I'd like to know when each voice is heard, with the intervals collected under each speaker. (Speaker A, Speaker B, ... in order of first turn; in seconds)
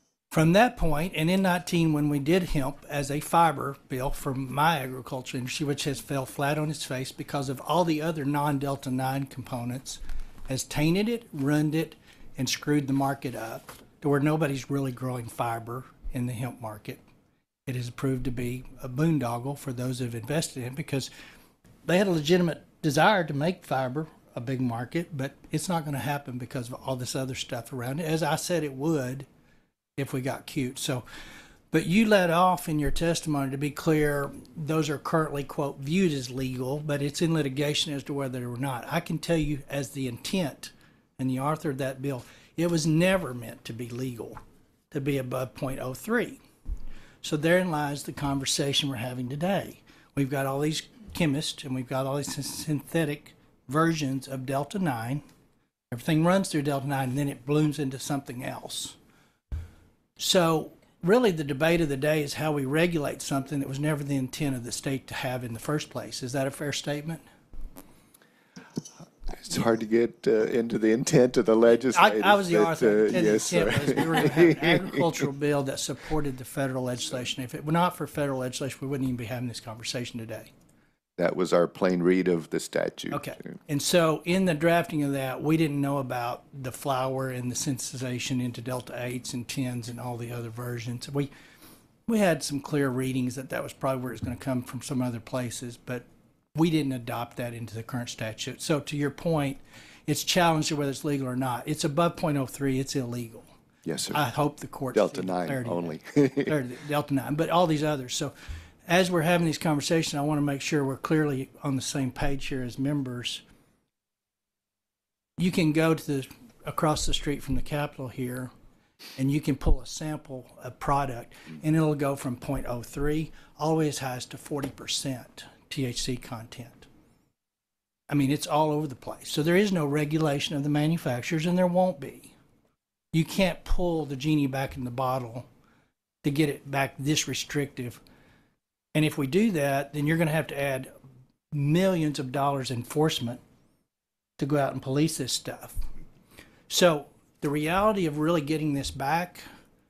Speaker A: 0.3-17.0, 17.7-21.1, 21.9-29.3, 30.0-31.1, 31.7-44.4, 44.9-46.4, 47.2-55.2, 55.9-59.0, 60.2-67.2, 71.9-80.5, 83.1-91.3, 92.1-103.5, 104.1-108.3, 108.9-113.4, 115.4-118.5, 119.2-126.9, 128.1-132.3, 133.1-135.5, 136.2-138.0, 138.9-140.9, 141.5-143.4, 144.4-145.8, 146.7-149.4
Speaker B: 69.4-75.0, 81.2-83.3, 103.8-104.2, 104.9-106.5